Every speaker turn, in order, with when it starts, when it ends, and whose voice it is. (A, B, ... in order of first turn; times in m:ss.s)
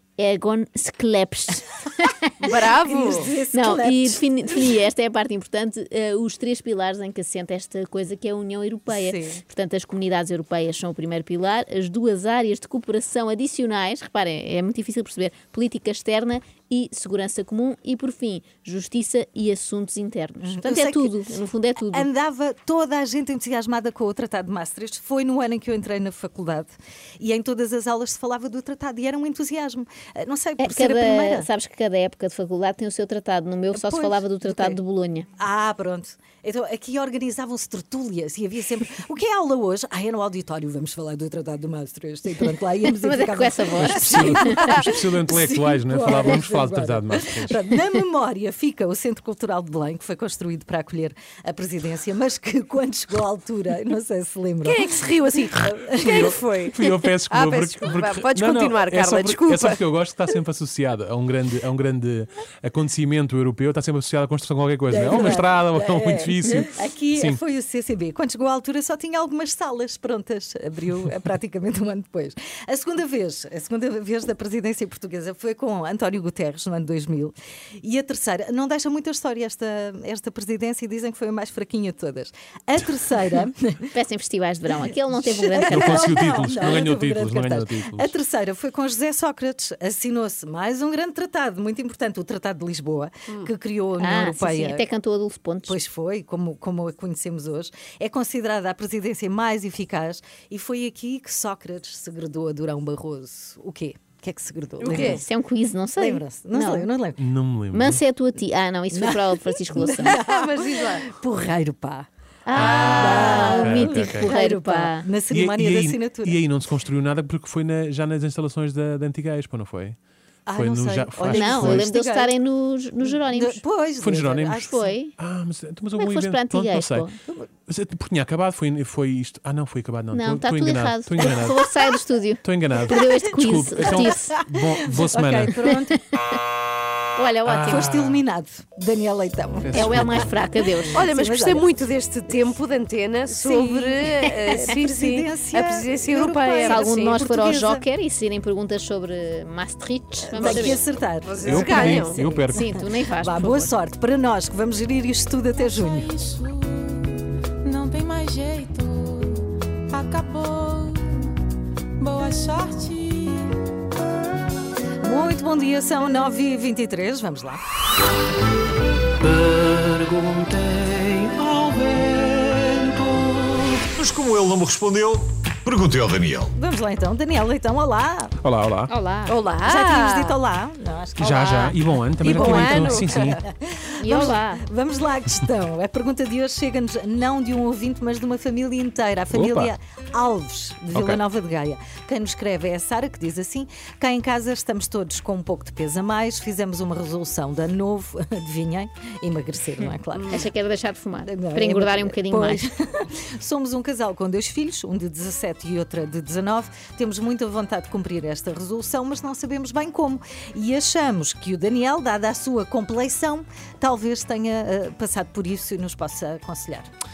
0:00.2-0:02.4 A
0:02.4-0:04.7 B
0:02.4-0:03.3 C
0:03.5-0:22.1 A
0:08.9-0:09.4 B
0:20.4-0:21.1 B
0:21.9-0:31.5 B
0:30.6-0:35.3 A
0:33.7-0:34.8 B
0:35.4-0:54.8 B
0:43.0-0:44.8 A
0:43.8-0:47.6 D
0:54.6-0:56.8 C
0:55.5-0:56.4 B
0:56.0-1:07.4 D
0:57.3-0:59.8 C
1:04.9-1:23.9 B
1:23.9-1:26.4 A
1:24.9-1:34.8 B
1:25.6-1:28.1 D
1:34.0-1:35.8 A
1:35.7-1:45.2 B
1:44.8-1:45.2 C
1:44.9-1:46.9 A
1:46.0-1:47.2 B
1:47.2-1:48.0 D
1:47.7-1:50.2 A
1:48.9-1:52.1 B
1:50.1-1:51.0 C
1:52.5-1:55.1 A
1:52.5-1:54.3 D
1:52.7-1:56.4 B
1:55.3-2:00.0 D
2:00.4-2:02.3 B
2:00.5-2:01.9 D
2:01.3-2:03.6 A
2:03.0-2:05.0 B
2:04.0-2:07.1 D
2:04.6-2:05.1 A
2:06.0-2:07.1 A
2:07.7-2:11.6 D
2:10.1-2:14.5 A
2:12.4-2:15.6 D
2:13.8-2:16.0 B
2:17.2-2:17.9 A
2:17.4-2:18.2 D
2:17.6-2:20.4 B
2:19.7-2:20.3 D
2:19.7-2:21.0 A
2:20.9-2:21.6 B
2:20.9-2:27.2 C
2:23.3-2:27.8 B
2:26.6-2:30.8 A
2:30.2-2:32.6 B
2:30.4-2:32.2 C
2:31.4-2:32.7 D
2:32.5-2:33.7 A
2:33.2-2:36.1 B
2:35.6-2:41.3 E
2:42.0-2:43.5 E
2:45.0-2:47.6 B
2:54.0-2:56.4 F
2:56.5-2:58.3 B
2:58.4-2:58.9 D
2:58.9-2:59.3 A
2:59.3-3:00.4 C
2:59.6-3:20.4 B
3:01.2-3:03.4 D
3:02.2-3:03.4 C
3:04.0-3:04.6 A
3:09.3-3:09.7 D
3:10.9-3:11.2 D
3:20.2-3:20.4 C
3:20.3-3:22.6 A
3:21.2-3:36.9 B